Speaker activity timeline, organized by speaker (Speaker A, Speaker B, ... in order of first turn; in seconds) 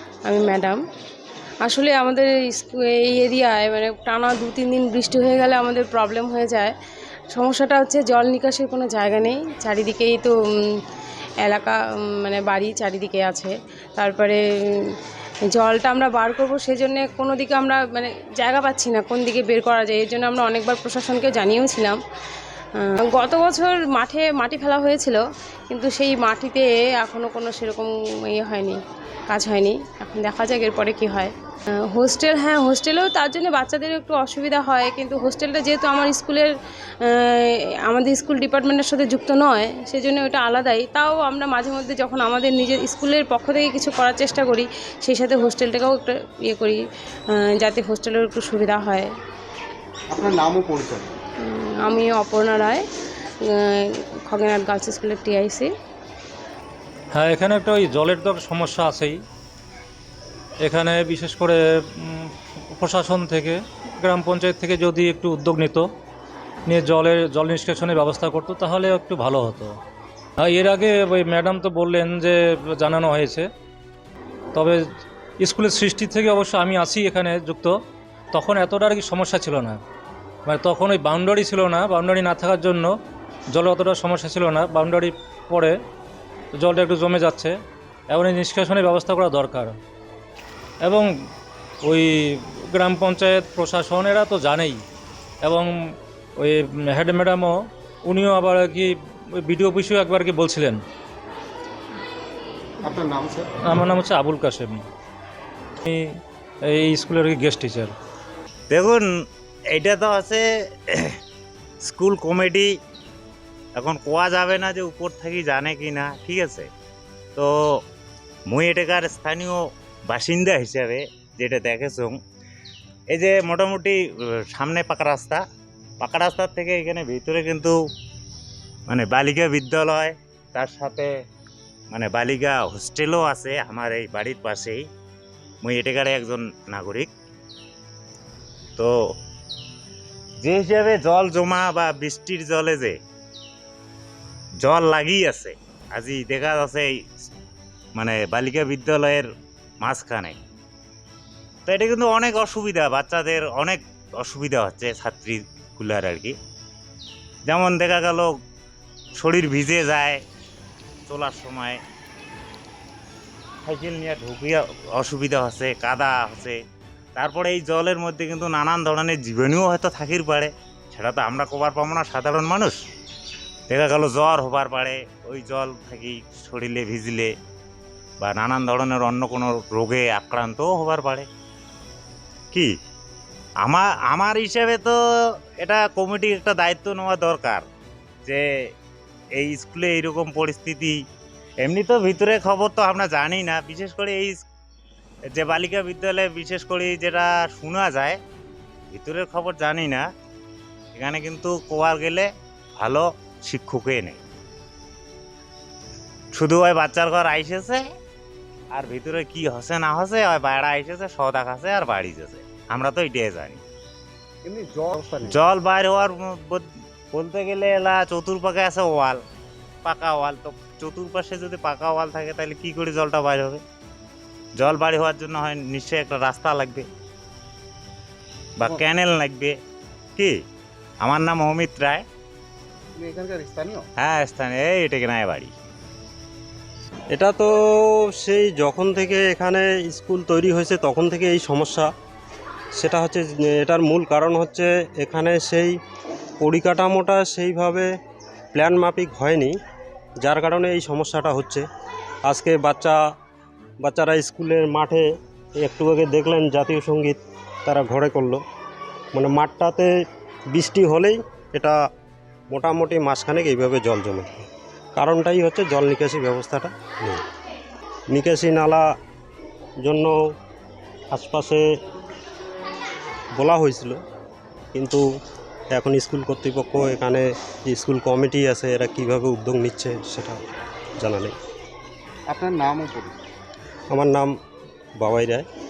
Speaker A: 0.3-0.8, 1.6-6.7, 7.3-10.8, 11.4-14.4, 15.5-22.0, 22.8-31.3, 31.9-49.1, 51.4-52.8, 53.4-55.7
Speaker B: 50.1-51.2, 102.8-103.5, 214.4-215.4, 232.9-233.9, 282.3-283.2
Speaker C: 57.1-59.2, 60.6-65.9, 66.7-69.8, 70.4-73.5, 74.5-74.8, 75.4-77.8, 78.3-79.8, 80.5-82.9, 83.5-85.8, 86.5-87.6, 88.1-89.8, 90.8-91.1, 91.8-94.8, 95.4-100.8, 103.6-104.8, 105.8-108.0
Speaker D: 108.7-109.1, 109.7-111.2, 111.8-112.7, 113.8-116.7, 117.4-117.8, 118.5-122.2, 123.1-124.0, 124.5-125.4, 126.0-127.7, 128.9-131.1, 131.9-134.8, 135.6-137.1, 140.4-143.0, 144.6-146.9, 148.0-149.2, 149.8-150.4, 151.7-156.3, 157.5-158.3, 159.2-160.2, 161.1-161.8, 163.7-166.6, 167.2-172.8, 173.7-177.3, 178.2-181.3, 183.6-184.9, 185.6-187.6, 189.4-190.9, 191.6-194.4, 195.3-198.2, 198.9-200.0, 200.9-202.3, 202.8-204.2, 206.3-207.8, 208.7-213.6, 215.2-219.2, 219.8-223.6, 224.6-226.9, 228.6-229.6, 231.0-232.0, 234.0-235.5
Speaker E: 237.1-241.9, 242.8-245.7, 246.4-247.9, 248.5-249.5, 250.2-251.6, 252.3-253.0, 253.8-255.1, 255.6-258.4, 259.1-259.9, 260.5-261.8, 262.5-267.2, 268.1-268.9, 269.8-270.2, 271.1-271.6, 273.4-274.0, 274.7-275.0, 275.7-280.4, 281.0-281.3, 283.9-284.3, 285.0-285.4